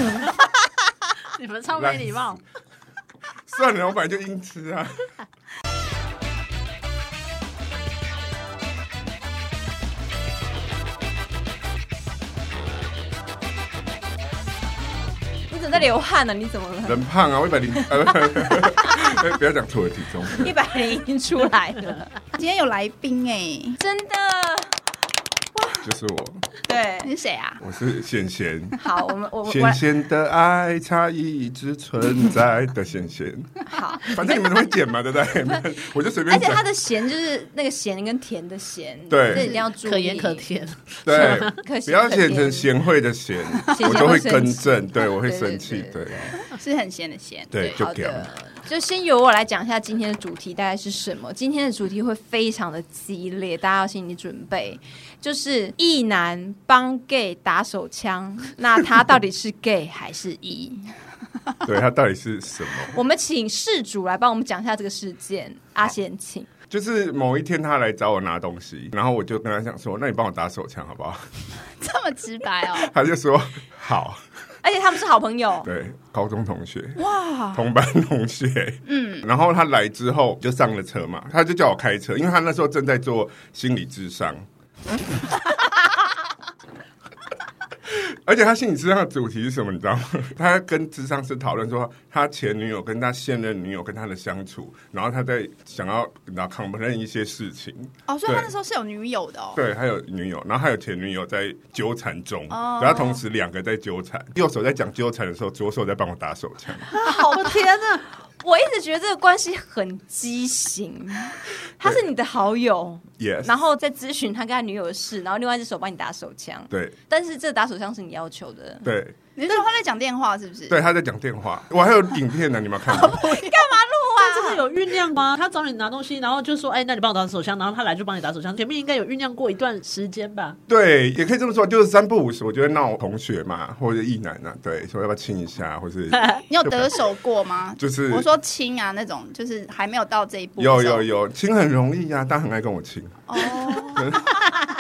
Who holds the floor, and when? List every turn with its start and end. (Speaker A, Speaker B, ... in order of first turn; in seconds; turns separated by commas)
Speaker A: 1.3-2.4, Speaker B: 1.8-2.4, Speaker B: 3.5-5.0, Speaker C: 15.5-17.0, Speaker B: 16.9-20.5, Speaker C: 18.3-19.1, Speaker C: 20.4-22.1, Speaker D: 22.4-23.8, Speaker C: 23.8-24.8, Speaker D: 25.6-25.8, Speaker B: 25.8-26.4, Speaker C: 26.6-27.1, Speaker D: 27.0-27.6, Speaker B: 27.6-28.8, Speaker C: 28.8-29.8, Speaker B: 29.5-33.5, Speaker C: 33.7-34.7, Speaker B: 34.0-36.6, Speaker C: 36.3-40.5, Speaker B: 39.1-39.5, Speaker D: 39.3-39.6, Speaker A: 39.7-41.6, Speaker B: 41.0-46.4, Speaker C: 41.1-42.7, Speaker C: 43.7-46.4, Speaker D: 46.5-47.8, Speaker B: 47.5-48.3, Speaker C: 47.6-60.9, Speaker B: 61.6-63.0, Speaker C: 62.9-66.5, Speaker B: 66.7-71.3, Speaker D: 71.8-72.9, Speaker B: 72.7-74.2, Speaker C: 74.6-75.7, Speaker B: 75.7-84.5, Speaker D: 77.0-77.6, Speaker D: 78.9-79.3, Speaker B: 87.9-98.5, Speaker D: 98.1-99.6, Speaker B: 99.5-106.9, Speaker D: 102.5-103.2, Speaker A: 106.9-108.0, Speaker C: 107.0-107.7, Speaker C: 108.4-118.9, Speaker B: 113.2-113.5, Speaker B: 116.7-117.0, Speaker B: 118.8-119.2, Speaker D: 119.3-120.8, Speaker B: 120.7-123.3, Speaker D: 123.0-123.5, Speaker C: 123.2-124.6, Speaker A: 124.2-130.6, Speaker B: 130.7-137.0, Speaker A: 136.1-136.4, Speaker D: 136.5-141.1, Speaker B: 137.8-138.3, Speaker B: 140.6-143.3, Speaker D: 143.3-144.3, Speaker B: 143.9-144.4